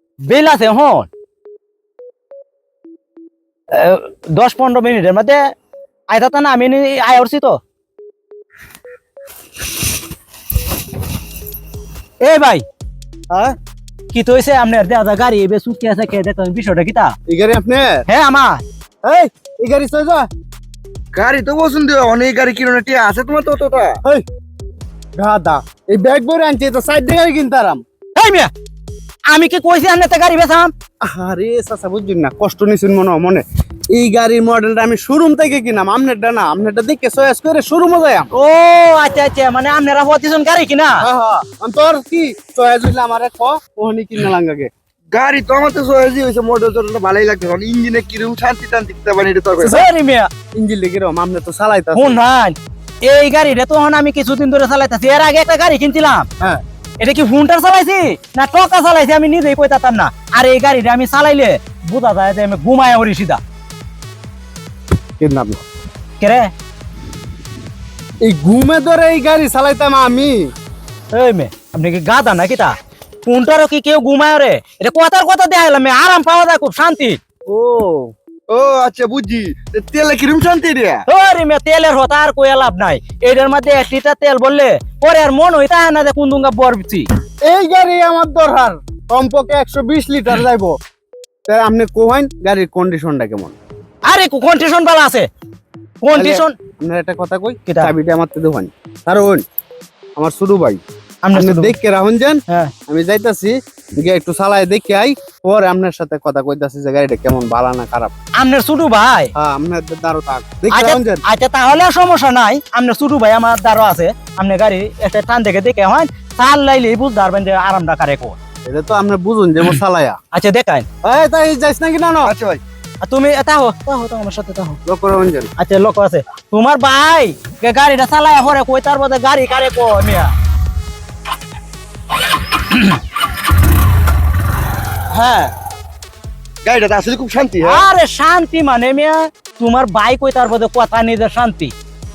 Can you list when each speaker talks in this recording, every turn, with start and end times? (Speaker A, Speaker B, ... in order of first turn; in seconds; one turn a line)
Speaker A: 0.2-1.1
Speaker A: 3.7-5.4
Speaker A: 6.1-7.6
Speaker A: 12.2-12.6
Speaker A: 14.1-17.1
Speaker B: 17.3-18.1
Speaker A: 18.1-18.6
Speaker B: 19.0-20.3
Speaker C: 21.1-24.0
Speaker B: 25.1-27.8
Speaker A: 28.1-28.5
Speaker A: 29.3-30.7
Speaker B: 31.0-38.3
Speaker A: 38.3-41.0
Speaker B: 41.0-44.7
Speaker C: 45.1-49.7
Speaker B: 49.6-49.9
Speaker A: 49.6-50.3
Speaker B: 50.5-52.2
Speaker A: 51.9-56.3
Speaker A: 57.0-63.4
Speaker B: 65.2-65.6
Speaker A: 66.2-66.5
Speaker B: 68.2-70.5
Speaker A: 71.1-72.7
Speaker A: 73.2-77.2
Speaker B: 77.5-78.1
Speaker C: 78.5-81.0
Speaker A: 81.1-87.0
Speaker B: 87.4-90.7
Speaker B: 91.5-93.5
Speaker A: 94.0-95.3
Speaker A: 96.0-96.5
Speaker B: 96.1-99.4
Speaker A: 97.7-97.9
Speaker B: 100.2-100.8
Speaker A: 101.2-101.7
Speaker B: 101.3-108.1
Speaker A: 108.4-109.3
Speaker B: 109.3-111.2
Speaker A: 110.7-118.4
Speaker B: 118.7-120.2
Speaker A: 120.3-120.8
Speaker B: 121.0-122.3
Speaker C: 122.2-122.6
Speaker A: 123.0-124.8
Speaker B: 124.8-125.5
Speaker A: 125.6-130.3
Speaker A: 132.5-132.9
Speaker A: 135.1-135.5
Speaker C: 136.6-137.8
Speaker A: 137.6-141.7